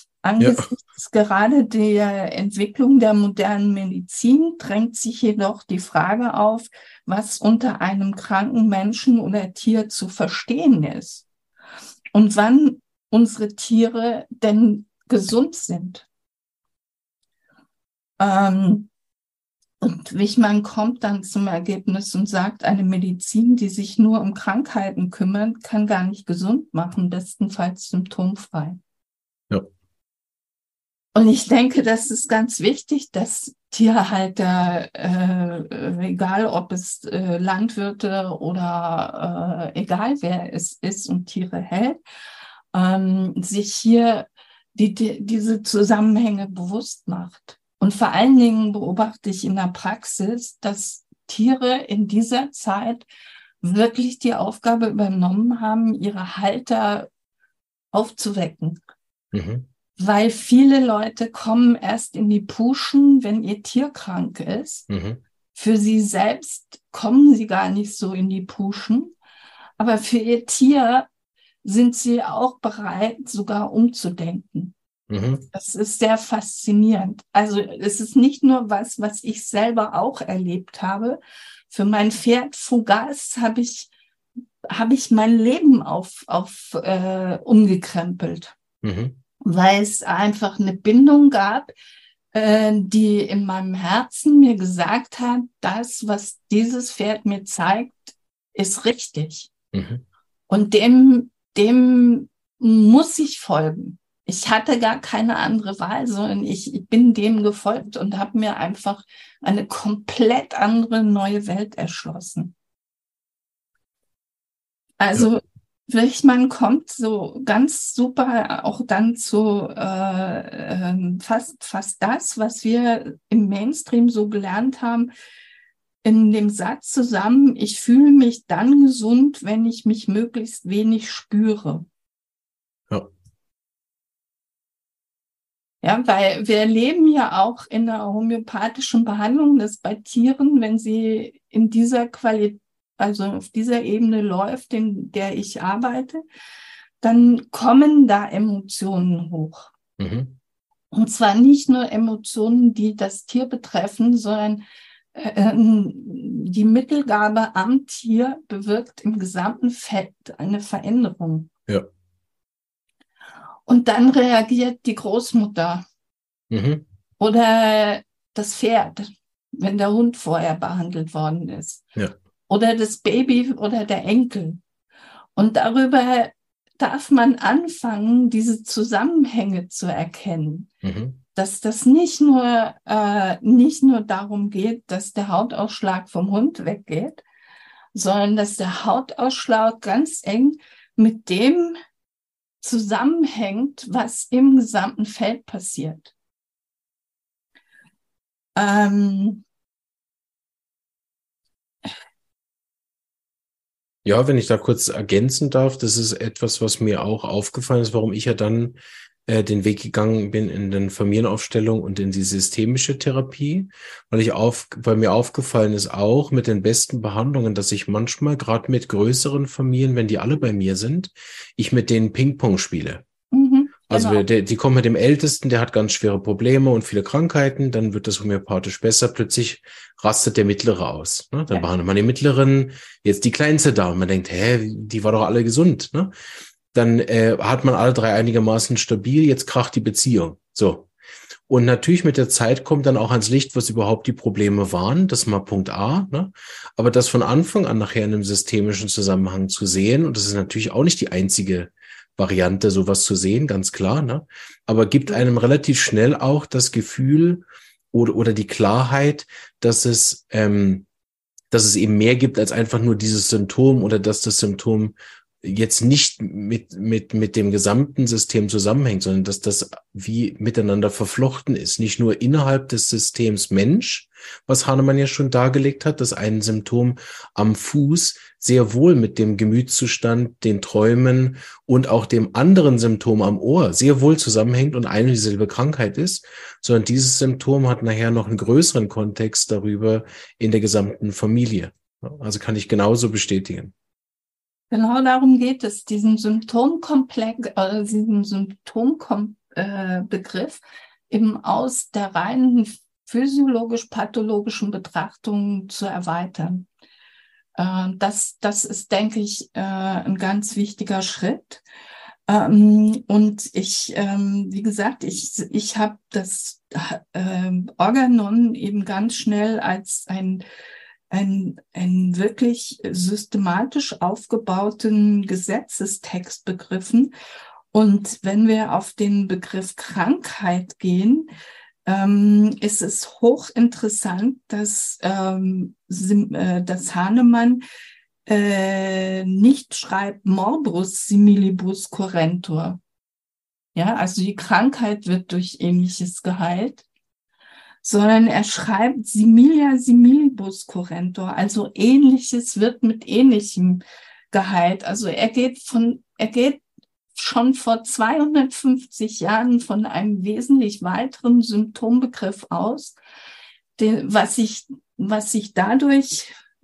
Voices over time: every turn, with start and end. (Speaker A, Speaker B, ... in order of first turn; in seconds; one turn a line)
Speaker A: 0.2-11.3
Speaker B: 0.4-0.6
Speaker A: 12.1-16.1
Speaker A: 18.2-18.9
Speaker A: 19.8-28.8
Speaker A: 31.1-42.0
Speaker A: 42.7-53.1
Speaker A: 53.6-57.1
Speaker A: 57.9-58.8
Speaker B: 59.3-59.7
Speaker A: 60.0-64.9
Speaker B: 64.9-65.2
Speaker A: 65.5-69.1
Speaker A: 69.8-71.1
Speaker A: 71.6-74.7
Speaker B: 75.1-75.5
Speaker A: 75.5-83.9
Speaker A: 84.7-88.6
Speaker B: 88.8-89.2
Speaker A: 89.4-91.7
Speaker A: 92.3-99.5
Speaker B: 99.7-100.0
Speaker A: 100.5-112.5
Speaker A: 115.0-125.1
Speaker A: 126.0-131.9
Speaker A: 135.8-146.2
Speaker A: 147.0-149.7
Speaker B: 150.0-150.4
Speaker A: 150.9-161.5
Speaker A: 163.7-165.9
Speaker B: 166.5-166.9
Speaker A: 167.2-171.8
Speaker A: 172.5-174.6
Speaker A: 175.4-180.7
Speaker B: 180.8-181.2
Speaker A: 181.3-187.2
Speaker A: 187.9-191.8
Speaker A: 192.6-196.1
Speaker A: 198.6-199.4
Speaker B: 204.1-223.0
Speaker A: 223.3-224.2
Speaker B: 223.9-236.1
Speaker B: 236.7-240.9
Speaker B: 241.5-260.9
Speaker B: 261.5-293.7
Speaker A: 294.7-306.6
Speaker A: 307.6-311.6
Speaker A: 312.3-320.4
Speaker A: 321.1-327.1
Speaker A: 327.7-331.3
Speaker A: 331.9-337.6
Speaker A: 338.3-342.8
Speaker A: 343.8-346.9
Speaker A: 347.8-356.6
Speaker A: 357.1-363.0
Speaker A: 363.8-366.3